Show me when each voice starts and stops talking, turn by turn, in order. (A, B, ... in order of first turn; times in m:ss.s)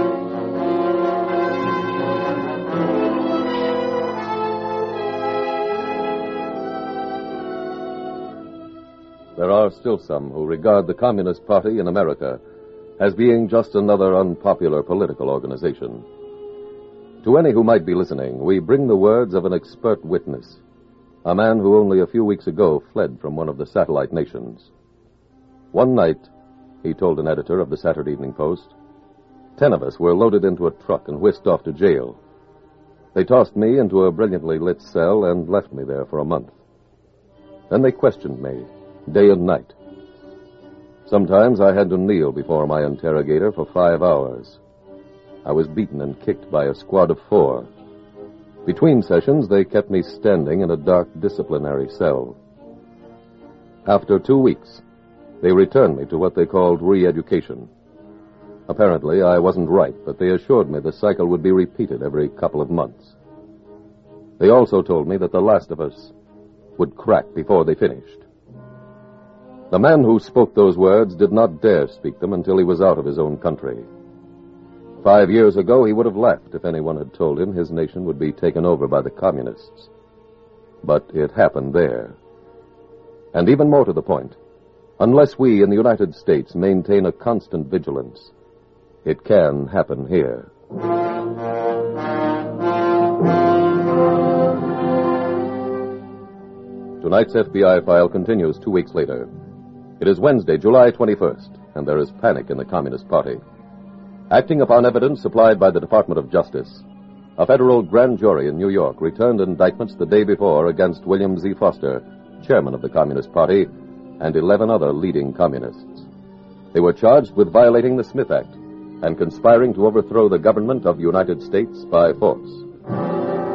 0:09.4-0:12.4 A
0:13.0-0:16.0 A
0:17.2-0:20.6 A
0:21.2-0:24.7 A
0:25.7-0:26.3 A
0:26.8-0:28.7 A
0:29.6-0:32.2 A
0:33.1-0:36.6 A
0:37.7-0:39.7 A
0:41.0-0:44.6 A
0:45.4-0:47.7 A
0:48.6-0:52.4 A
0:53.8-0:54.8 A
0:55.4-0:57.7 A
0:58.7-1:03.2 A
1:04.4-1:06.1 A
1:06.8-1:08.2 A
1:09.7-1:13.9 A
1:15.0-1:19.9 A
1:20.8-1:22.2 A
1:23.3-1:24.4 A
1:25.0-1:28.3 A
1:29.0-1:30.5 A
1:37.0-1:39.3 A
1:40.0-1:43.4 A
1:44.3-1:46.8 A
1:47.4-1:56.0 A
1:56.7-2:02.6 A